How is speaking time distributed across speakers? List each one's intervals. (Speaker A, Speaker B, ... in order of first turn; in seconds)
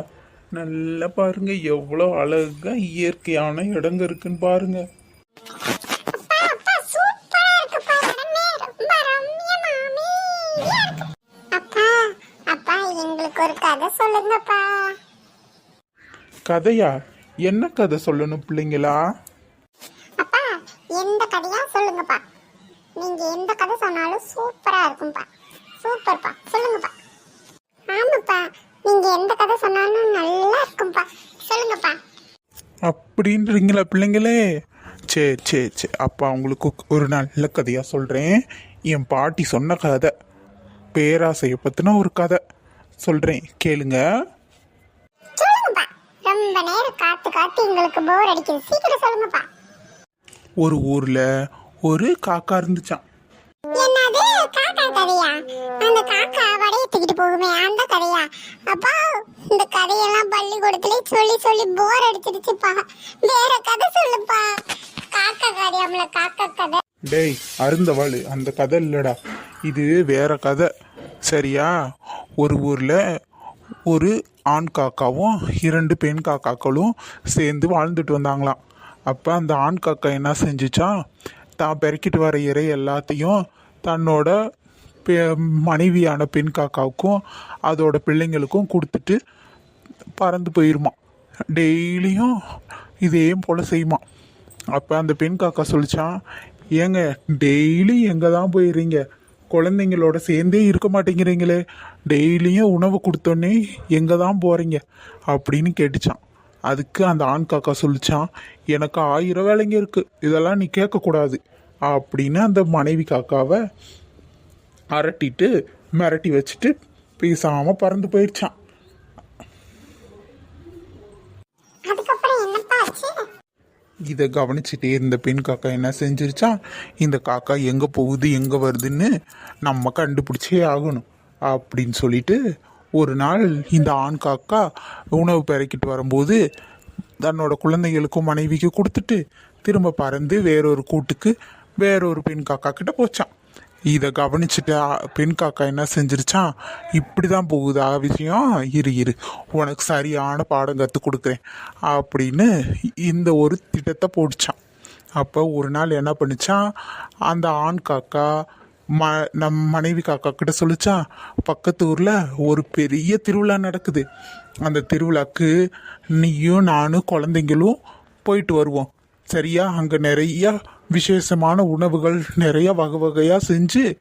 Speaker A: 0.6-4.8, 16.5-16.9, 17.5-19.0, 32.9-34.4, 35.1-38.4, 38.9-40.1, 40.9-42.4, 43.0-44.0, 50.6-51.2, 51.9-53.0, 67.1-69.2, 69.7-70.7, 71.3-71.7, 72.4-73.0, 73.9-80.9, 81.6-84.3, 85.1-89.2, 90.2-90.9, 91.5-92.3, 93.0-94.0, 94.7-96.1, 96.8-113.6, 114.9-118.5, 124.1-129.1, 129.7-132.4, 133.0-134.6, 135.2-136.4, 137.2-143.3, 143.9-152.5, 153.0-154.6, 155.2-156.6, 157.3-158.3, 159.0-164.0, 164.7-165.5, 166.2-173.8
Speaker B: 6.1-15.0, 20.2-22.2, 23.0-25.3, 25.8-26.9, 27.9-32.0, 45.4-49.5, 53.7-66.8, 121.9-123.2